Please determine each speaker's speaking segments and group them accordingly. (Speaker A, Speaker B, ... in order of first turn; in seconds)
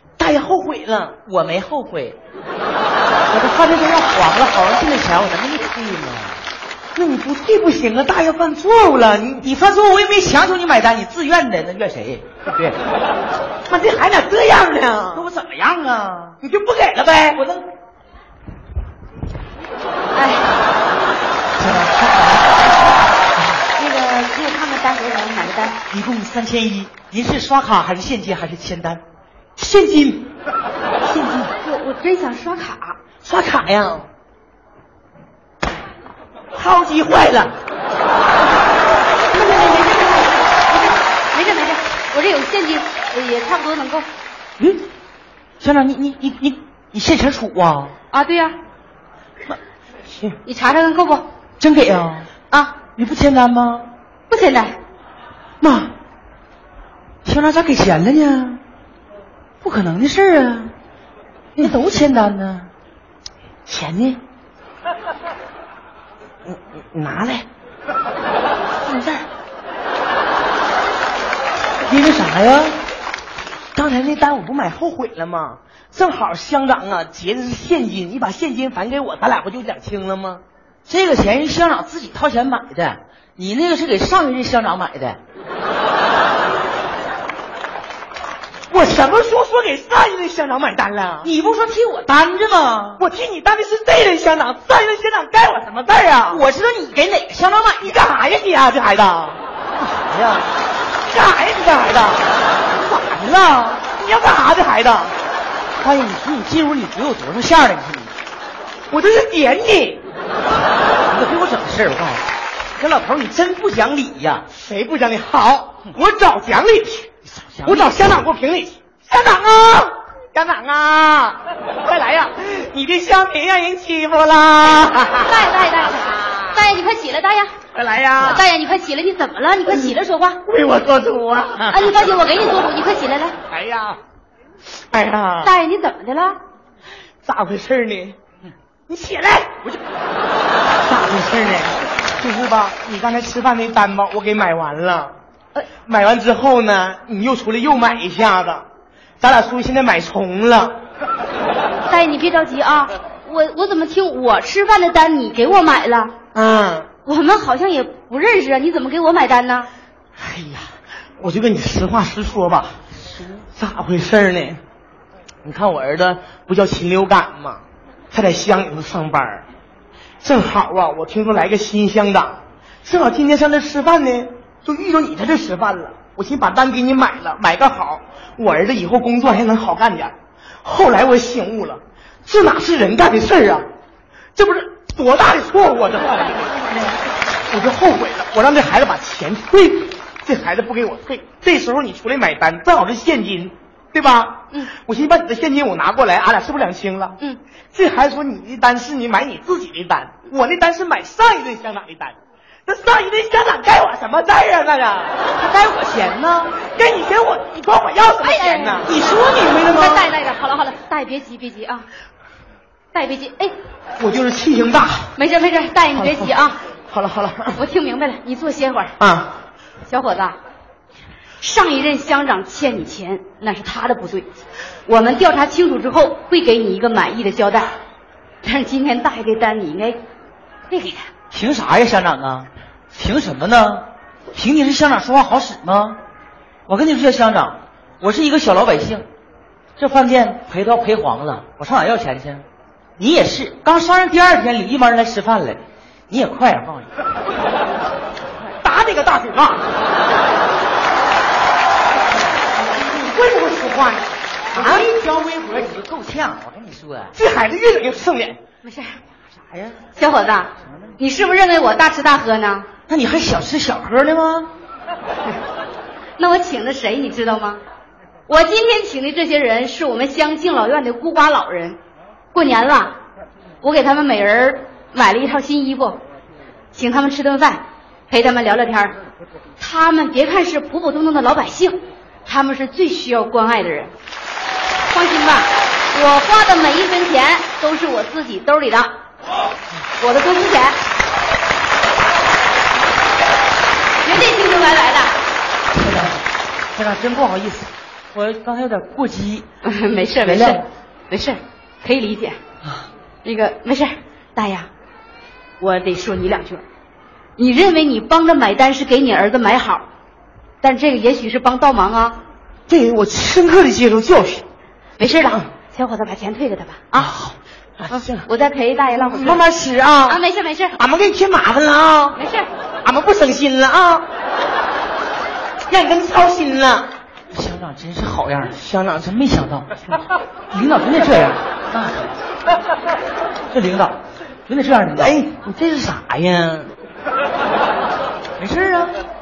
Speaker A: 0.2-1.2, 6.9-9.5, 13.7-15.3, 16.4-17.4, 29.6-30.3, 33.2-34.1, 36.5-37.5, 50.1-50.4, 63.7-64.2, 66.4-67.5, 68.8-69.3, 73.7-80.4, 88.7-91.3, 93.0-96.4, 97.8-99.4, 101.1-102.2, 102.8-105.2, 108.9-110.0, 114.5-117.1, 117.6-125.4, 126.2-126.5, 127.7-128.4, 129.7-132.0, 133.5-134.0, 134.9-135.5, 137.2-138.2, 138.9-139.6, 140.8-145.2, 145.8-148.7, 149.2-150.8, 156.3-156.9, 160.2-162.8, 163.4-164.6, 165.4-169.4, 170.2-183.7, 184.3-186.8, 187.4-197.2, 197.7-205.2, 206.5-210.0, 214.0-215.1, 215.9-217.6, 219.0-219.4, 248.6-249.7, 252.5-254.8, 257.1-258.4, 312.7-314.4, 315.2-315.5, 316.9-318.3, 318.9-322.2, 322.8-324.1, 325.7-326.9, 328.5-329.1, 334.9-336.7
Speaker B: 1.2-2.2, 3.3-6.4, 9.4-12.8, 15.1-16.4, 17.3-17.7, 21.6-22.8, 25.9-29.0, 31.1-31.5, 44.6-44.9, 45.6-47.9, 51.6-53.9, 57.2-58.6, 59.6-60.7, 61.5-62.7, 71.8-72.8, 80.9-85.2, 91.2-93.0, 96.2-98.0, 99.8-100.5, 105.8-108.1, 111.1-112.2, 112.8-114.5, 117.3-118.1, 205.3-206.6, 208.4-209.9, 231.3-236.0, 236.7-239.0, 239.8-242.4, 243.0-246.9, 254.5-257.1, 259.4-259.8, 260.6-261.0, 262.9-264.5, 295.7-296.2, 296.7-299.5, 300.2-300.6, 302.6-302.9, 327.3-332.1, 333.5-335.2, 338.4-339.0
Speaker C: 20.1-20.6, 23.7-25.8, 31.6-33.0, 39.3-44.1, 48.1-48.6, 50.4-51.2, 54.3-54.8, 125.2-127.5, 128.2-130.4, 131.7-133.4, 135.4-136.4, 151.9-156.1, 157.0-159.7, 208.5-208.8, 209.7-211.9, 212.9-213.5, 215.1-216.6, 217.5-218.9, 219.8-220.4, 221.4-224.3, 224.8-227.7, 228.4-230.0, 230.7-231.1, 258.6-259.0, 259.9-262.7, 266.2-267.6, 268.3-271.8, 272.3-273.0, 273.6-276.0, 276.7-278.9, 279.6-283.9, 284.9-288.9, 290.0-290.8, 294.0-295.2, 299.6-302.4, 303.2-304.7, 305.6-306.6, 307.4-309.8, 310.6-312.2, 315.0-317.1, 317.9-319.4, 320.1-320.8, 322.1-322.5